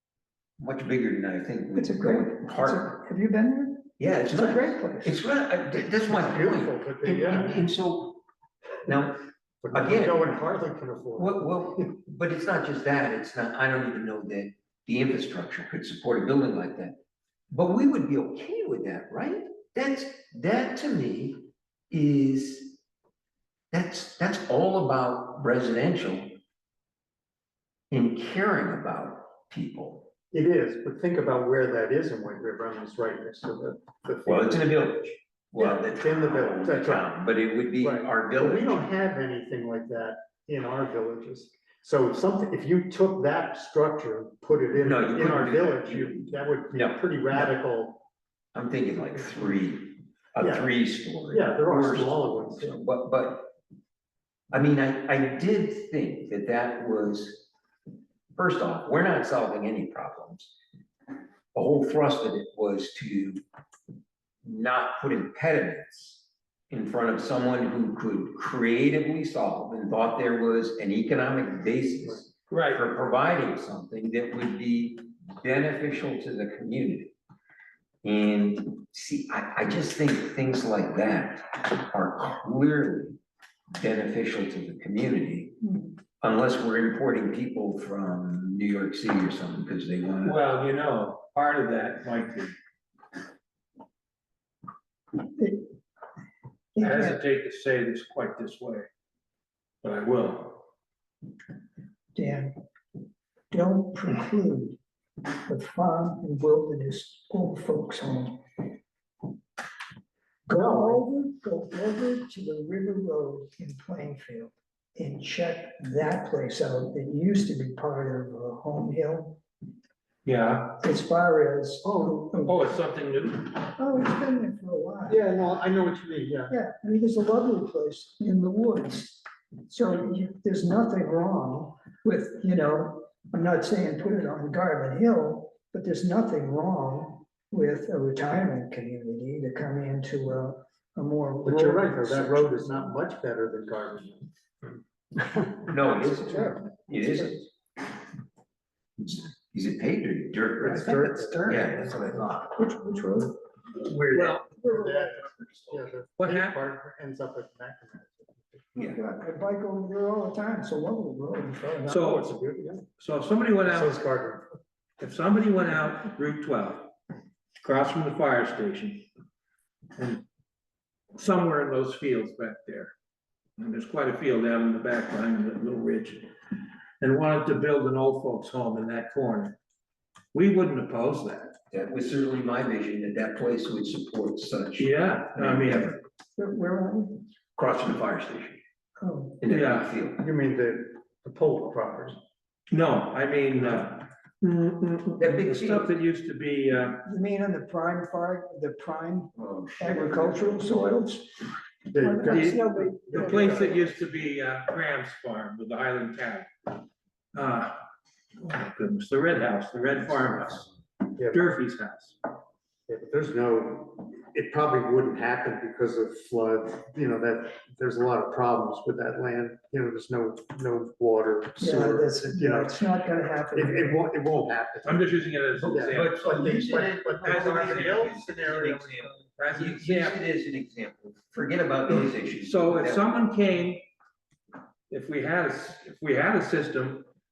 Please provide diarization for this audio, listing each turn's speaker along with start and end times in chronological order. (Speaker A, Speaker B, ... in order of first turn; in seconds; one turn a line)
Speaker A: 0.6-2.9
Speaker B: 1.7-5.2
Speaker A: 4.0-8.2
Speaker C: 6.2-7.7
Speaker A: 8.8-9.2
Speaker C: 9.6-11.9
Speaker A: 9.7-10.3
Speaker A: 11.2-17.0
Speaker A: 17.5-22.8
Speaker A: 23.7-26.4
Speaker A: 27.9-30.1
Speaker C: 30.3-34.7
Speaker A: 34.2-38.9
Speaker C: 35.5-37.1
Speaker C: 37.8-48.0
Speaker A: 44.8-47.5
Speaker A: 48.5-53.5
Speaker C: 50.4-50.7
Speaker C: 51.3-52.8
Speaker A: 54.5-57.5
Speaker A: 58.3-60.5
Speaker A: 61.5-63.4
Speaker A: 64.4-77.1
Speaker D: 72.5-72.8
Speaker A: 78.0-83.2
Speaker A: 83.7-85.6
Speaker B: 85.6-86.0
Speaker A: 86.2-90.4
Speaker D: 90.2-92.5
Speaker B: 95.2-95.7
Speaker B: 96.7-97.2
Speaker D: 96.8-98.9
Speaker D: 99.8-100.7
Speaker B: 102.1-102.5
Speaker B: 103.5-104.8
Speaker B: 105.5-108.7
Speaker B: 110.5-119.4
Speaker C: 110.5-111.0
Speaker D: 120.2-120.8
Speaker B: 120.8-122.8
Speaker C: 121.8-122.2
Speaker D: 122.4-123.6
Speaker B: 123.8-125.3
Speaker C: 125.1-126.5
Speaker B: 126.5-142.9
Speaker C: 141.4-144.3
Speaker C: 145.1-146.6
Speaker A: 145.7-147.5
Speaker A: 149.0-152.5
Speaker C: 150.6-151.8
Speaker B: 151.2-153.4
Speaker A: 153.8-154.4
Speaker D: 154.1-154.5
Speaker B: 154.5-155.3
Speaker C: 154.6-158.7
Speaker D: 156.2-156.6
Speaker A: 158.8-159.0
Speaker B: 158.8-162.0
Speaker C: 161.8-162.9
Speaker D: 161.9-162.3
Speaker D: 163.0-163.9
Speaker C: 163.6-164.4
Speaker D: 165.0-166.9
Speaker D: 167.6-169.1
Speaker D: 169.9-170.2
Speaker D: 171.1-172.9
Speaker D: 173.6-176.3
Speaker D: 177.0-179.6
Speaker D: 180.3-181.5
Speaker A: 181.7-185.9
Speaker D: 184.8-185.9
Speaker B: 186.3-187.2
Speaker A: 187.6-188.6
Speaker B: 189.0-189.4
Speaker A: 189.4-190.2
Speaker D: 189.5-189.9
Speaker C: 190.2-192.2
Speaker D: 192.7-197.0
Speaker A: 195.2-195.9
Speaker B: 197.0-203.7
Speaker A: 199.3-200.7
Speaker C: 201.9-203.9
Speaker D: 202.2-206.7
Speaker D: 207.3-207.8
Speaker D: 208.4-210.7
Speaker C: 211.2-211.5
Speaker D: 211.3-212.2
Speaker C: 212.9-222.7
Speaker B: 221.6-224.0
Speaker C: 223.5-229.1
Speaker D: 224.8-226.5
Speaker A: 225.6-233.2
Speaker D: 227.2-228.7
Speaker D: 229.3-230.2
Speaker D: 232.4-233.8
Speaker D: 234.9-237.1